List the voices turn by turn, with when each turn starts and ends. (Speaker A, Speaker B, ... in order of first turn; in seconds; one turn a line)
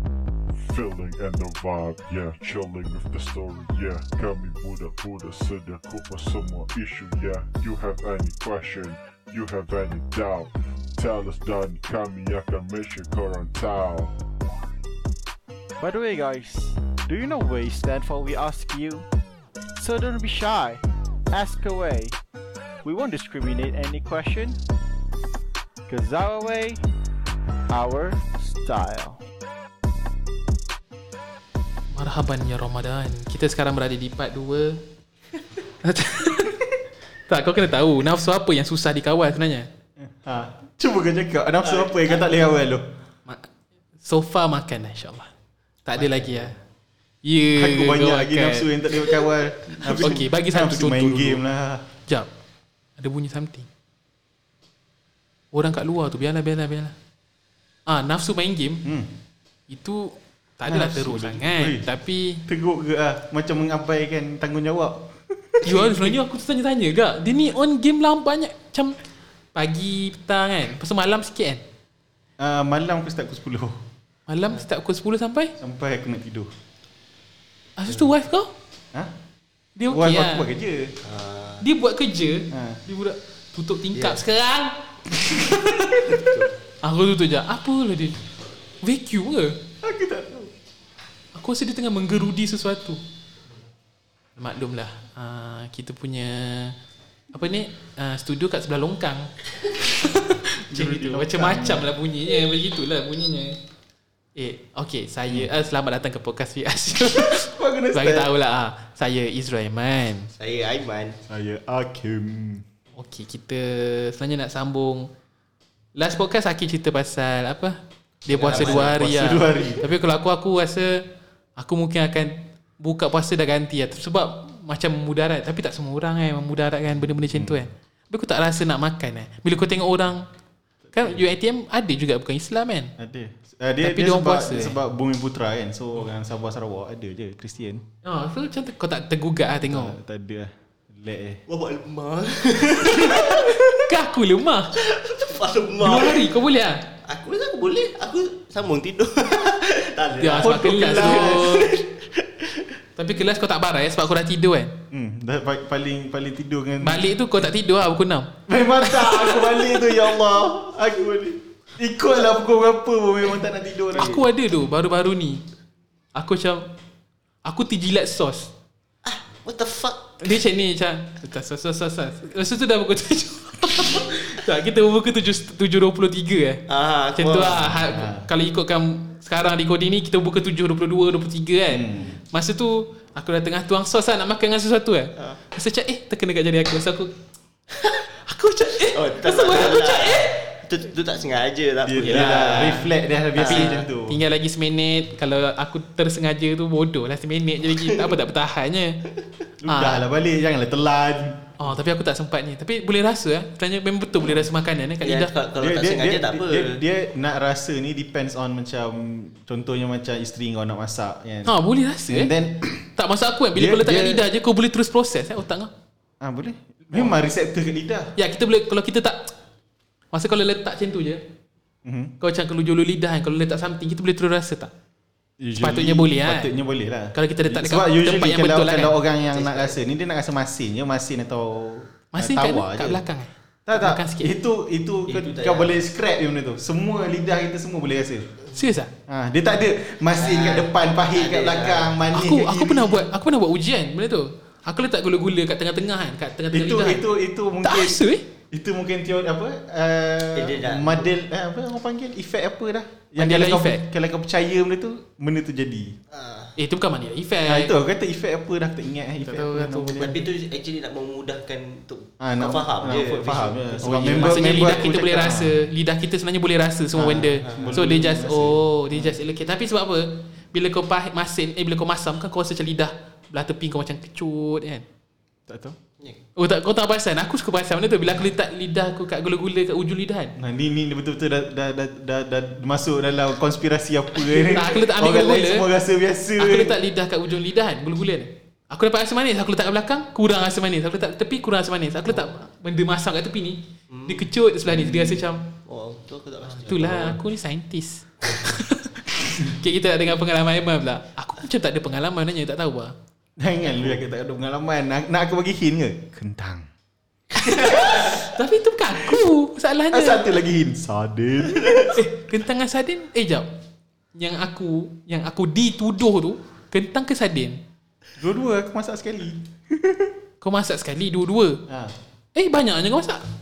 Speaker A: 0.6-14.1
Speaker B: 15.8-19.1
Speaker B: 19.8-22.2
Speaker B: 22.8-24.6
Speaker B: 25.9-26.8
Speaker B: 27.7-29.2
Speaker C: 31.9-34.8
Speaker C: 35.8-36.6
Speaker C: 37.3-39.7
Speaker D: 40.0-42.9
Speaker E: 41.6-42.2
Speaker C: 44.0-45.3
Speaker C: 45.9-46.5
Speaker C: 47.2-48.7
Speaker D: 47.5-51.9
Speaker C: 49.7-51.4
Speaker C: 53.0-53.7
Speaker C: 55.5-57.0
Speaker C: 57.9-58.9
Speaker D: 58.8-59.1
Speaker C: 59.7-62.4
Speaker D: 60.7-61.9
Speaker D: 62.5-66.2
Speaker C: 65.6-69.0
Speaker C: 69.5-71.6
Speaker D: 72.4-73.8
Speaker C: 74.3-75.5
Speaker D: 75.6-76.5
Speaker C: 77.8-78.5
Speaker C: 79.8-80.5
Speaker D: 79.9-81.0
Speaker E: 81.0-81.6
Speaker C: 81.6-86.1
Speaker D: 82.5-82.8
Speaker E: 83.9-84.2
Speaker E: 86.0-86.5
Speaker C: 86.8-88.2
Speaker C: 88.8-89.6
Speaker D: 89.8-90.5
Speaker C: 91.3-93.0
Speaker C: 94.4-96.8
Speaker C: 97.3-99.3
Speaker C: 99.9-103.6
Speaker D: 100.7-101.9
Speaker C: 104.4-110.3
Speaker D: 107.1-108.3
Speaker E: 110.4-111.2
Speaker D: 111.3-112.6
Speaker C: 113.0-115.1
Speaker C: 116.0-121.0
Speaker E: 118.4-119.0
Speaker D: 118.4-119.9
Speaker C: 121.6-130.2
Speaker D: 127.3-127.6
Speaker C: 130.9-132.9
Speaker D: 133.0-137.8
Speaker C: 133.8-134.8
Speaker C: 138.0-140.0
Speaker D: 139.6-141.4
Speaker E: 141.5-143.9
Speaker C: 143.1-144.7
Speaker E: 144.8-146.3
Speaker C: 145.8-146.8
Speaker E: 147.1-152.7
Speaker C: 150.2-151.7
Speaker D: 150.4-151.7
Speaker C: 153.0-154.8
Speaker D: 154.9-157.1
Speaker C: 156.8-159.8
Speaker D: 158.5-164.2
Speaker C: 163.9-165.4
Speaker C: 166.2-166.7
Speaker C: 167.4-168.5
Speaker E: 169.0-170.2
Speaker C: 170.2-176.6
Speaker E: 176.7-177.6
Speaker C: 177.2-187.1
Speaker D: 177.3-178.2
Speaker D: 181.7-182.2
Speaker C: 187.8-190.4
Speaker E: 188.9-193.8
Speaker D: 191.9-194.2
Speaker C: 193.4-199.0
Speaker E: 197.8-198.1
Speaker D: 199.6-201.5
Speaker C: 199.7-200.0
Speaker C: 201.6-205.3
Speaker E: 205.0-206.8
Speaker D: 205.6-211.5
Speaker C: 211.5-212.3
Speaker D: 212.1-212.9
Speaker C: 213.0-215.7
Speaker D: 213.6-214.2
Speaker D: 216.2-218.1
Speaker C: 218.2-219.3
Speaker C: 220.1-221.2
Speaker D: 221.8-222.2
Speaker C: 222.2-224.7
Speaker D: 225.4-233.0
Speaker C: 225.6-226.5
Speaker C: 227.1-229.0
Speaker E: 229.4-229.7
Speaker C: 232.1-234.3
Speaker D: 233.7-238.3
Speaker E: 235.1-235.8
Speaker C: 238.5-238.9
Speaker D: 239.1-243.1
Speaker E: 240.2-242.0
Speaker C: 242.1-247.0
Speaker D: 246.5-256.0
Speaker C: 247.6-248.2
Speaker E: 250.3-251.1
Speaker C: 253.2-253.8
Speaker E: 256.1-256.6
Speaker C: 256.6-257.7
Speaker D: 257.5-260.2
Speaker C: 259.2-260.1
Speaker E: 260.0-265.2
Speaker D: 262.2-265.6
Speaker C: 263.9-274.9
Speaker D: 266.9-269.2
Speaker E: 267.4-267.7
Speaker D: 275.5-275.8
Speaker C: 276.4-280.3
Speaker D: 280.4-286.8
Speaker C: 284.4-285.7
Speaker C: 286.4-295.4
Speaker E: 293.9-294.3
Speaker D: 294.7-295.2
Speaker E: 295.7-297.2
Speaker C: 296.7-302.9
Speaker D: 303.4-306.7
Speaker C: 307.4-310.3
Speaker D: 307.4-308.1
Speaker D: 309.9-312.0
Speaker C: 311.9-313.5
Speaker C: 314.1-317.6
Speaker D: 318.2-320.1
Speaker C: 320.4-321.6
Speaker D: 321.7-321.9
Speaker C: 322.4-323.2